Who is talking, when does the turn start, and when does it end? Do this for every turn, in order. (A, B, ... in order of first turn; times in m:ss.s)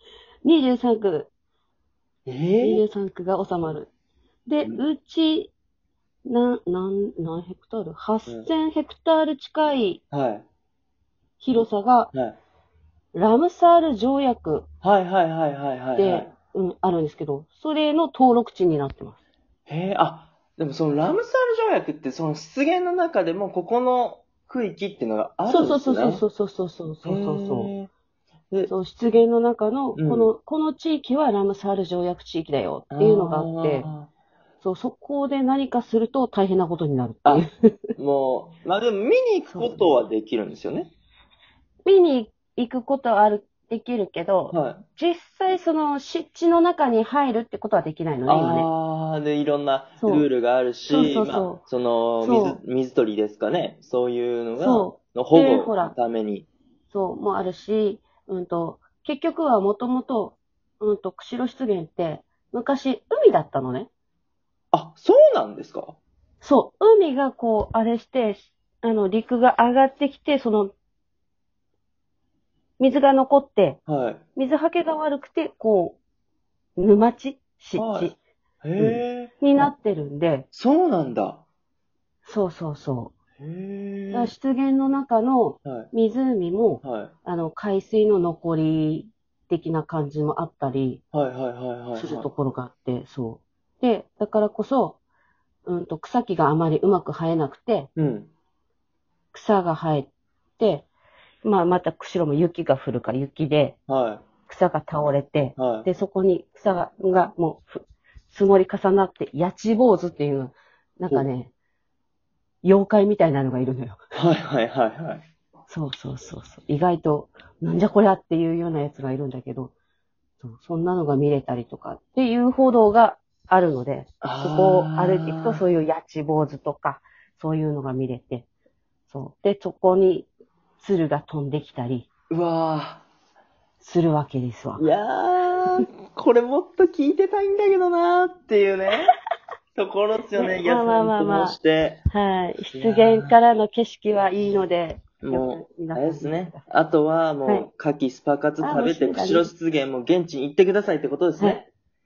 0:00.4-0:01.3 A
0:02.3-0:02.8 B
0:02.6-0:03.9 A
0:04.5-0:05.5 A
0:06.2-0:10.0 A
0:10.1-0:10.5 B
0:11.4-0:12.1 A
0:13.1-0:14.7 A
0:14.8-0:16.3 B
0:16.0-0:19.2 A
0:19.7-0:26.2 B
0:25.5-0:27.7 A
0:27.0-0:27.9 B
0:28.7-0:33.9 A
0:30.0-0:30.3 B
0:32.9-0:34.1 B
0:34.6-0:37.5 A
0:37.2-0:40.9 B
0:39.5-0:39.8 A
0:41.8-0:48.7 A
0:44.5-0:44.8 B
0:48.3-0:56.5 B
0:50.0-0:50.3 A
0:50.9-0:51.6 A
0:52.2-0:52.6 A
0:54.6-0:56.0 A
0:56.9-1:03.9 A
1:04.7-1:06.0 B
1:06.4-1:10.7 A
1:12.8-1:13.8 A
1:13.9-1:14.2 B
1:14.4-1:16.0 A
1:16.8-1:18.2 A
1:17.8-1:19.3 B
1:18.8-1:20.5 A
1:20.5-1:21.4 B
1:22.2-1:23.1 A
1:23.4-1:24.3 B
1:24.1-1:31.0 A
1:26.8-1:27.1 B
1:31.1-1:32.3 B
1:32.0-1:35.0 A
1:35.7-1:37.9 A
1:38.0-1:38.3 B
1:39.3-1:40.9 A
1:41.4-1:43.8 A
1:43.9-1:44.2 B
1:44.5-1:51.5 A
1:45.6-1:45.9 B
1:52.6-1:54.0 A
1:54.1-1:55.2 B
1:55.7-1:59.7 A
2:00.4-2:08.5 A
2:04.2-2:05.6 B
2:09.1-2:12.1 A
2:12.3-2:13.0 B
2:13.8-2:14.9 A
2:14.8-2:19.1 B
2:19.8-2:22.0 B
2:20.4-2:21.6 A
2:22.1-2:26.7 A
2:22.7-2:23.3 B
2:25.2-2:31.7 B
2:28.6-2:29.5 A